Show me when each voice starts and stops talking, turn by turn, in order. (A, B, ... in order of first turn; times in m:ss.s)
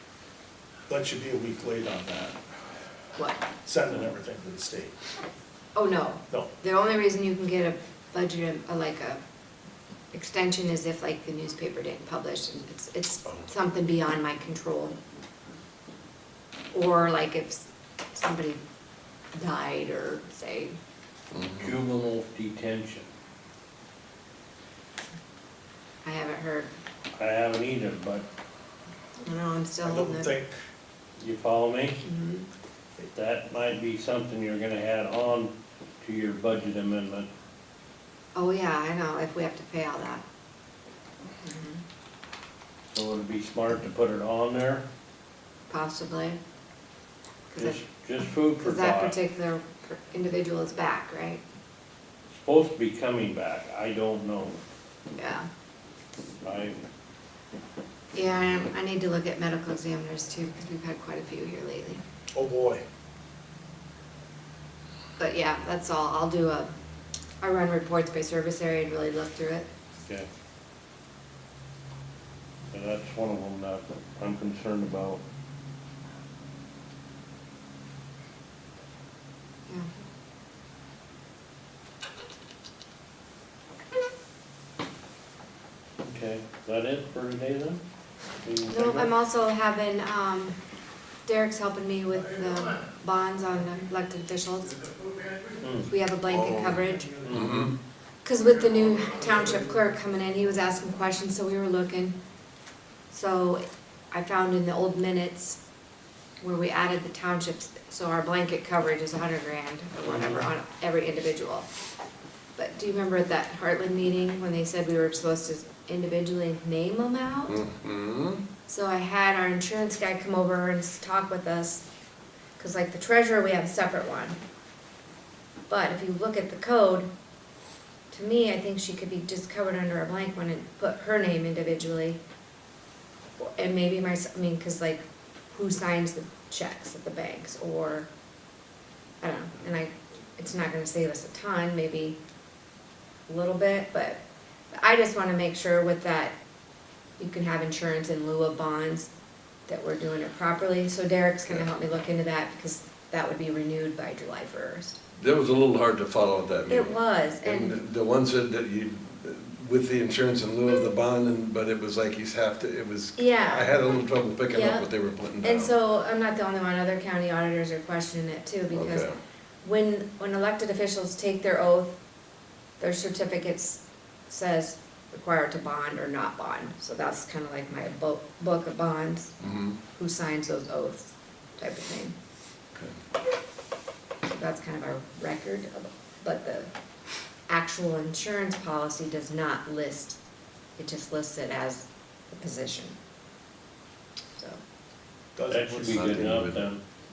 0:00.9-0:02.4 A
0:03.2-0:03.4 B
0:03.6-0:04.9 A
0:05.7-0:09.2 B
0:10.1-0:15.0 B
0:16.7-0:18.6 B
0:19.3-0:20.7 B
0:21.3-0:21.7 C
0:21.6-0:23.1 D
0:26.0-0:26.7 B
0:27.1-0:28.3 D
0:29.2-0:30.3 B
0:29.8-0:30.5 A
0:31.2-0:32.0 D
0:32.0-0:32.5 B
0:33.1-0:37.3 D
0:38.3-0:40.2 B
0:41.4-0:41.8 B
0:42.9-0:44.8 D
0:45.7-0:46.4 B
0:47.5-0:47.8 B
0:47.6-0:49.2 D
0:48.6-0:51.4 B
0:52.3-0:54.6 D
0:55.2-0:55.5 B
0:56.4-0:56.8 D
0:58.1-1:02.0 B
1:02.3-1:02.8 A
1:05.2-1:06.7 B
1:07.4-1:09.7 B
1:12.7-1:15.2 D
1:26.0-1:27.8 D
1:28.4-1:29.1 D
1:28.7-1:30.6 B
1:31.2-1:34.8 B
1:35.6-1:35.9 D
1:35.8-1:37.2 B
1:36.3-1:37.8 C
1:37.2-1:37.7 D
1:38.2-1:42.2 B
1:43.1-1:45.6 B
1:46.4-1:51.7 B
1:50.1-1:50.4 D
1:52.6-1:57.6 B
1:57.5-1:58.4 C
1:58.7-2:01.8 B
2:02.6-2:04.4 B
2:05.7-2:07.1 B
2:08.1-2:12.2 B
2:13.4-2:18.1 B
2:19.2-2:22.2 B
2:23.3-2:24.2 B
2:24.7-2:26.4 B
2:27.2-2:29.1 B
2:29.7-2:35.0 B
2:35.2-2:45.7 C
2:36.7-2:37.8 B
2:43.2-2:43.8 B
2:44.5-2:44.9 B
2:45.4-2:49.1 B
2:48.7-2:49.2 C
2:49.6-2:52.0 B
2:52.8-2:59.3 B
2:59.4-2:59.8 C
2:59.9-3:02.1 B
3:04.2-3:06.7 B
3:07.5-3:10.2 B
3:10.8-3:13.0 B
3:14.3-3:14.6 B
3:15.3-3:16.0 A
3:15.5-3:16.8 D
3:15.8-3:16.7 C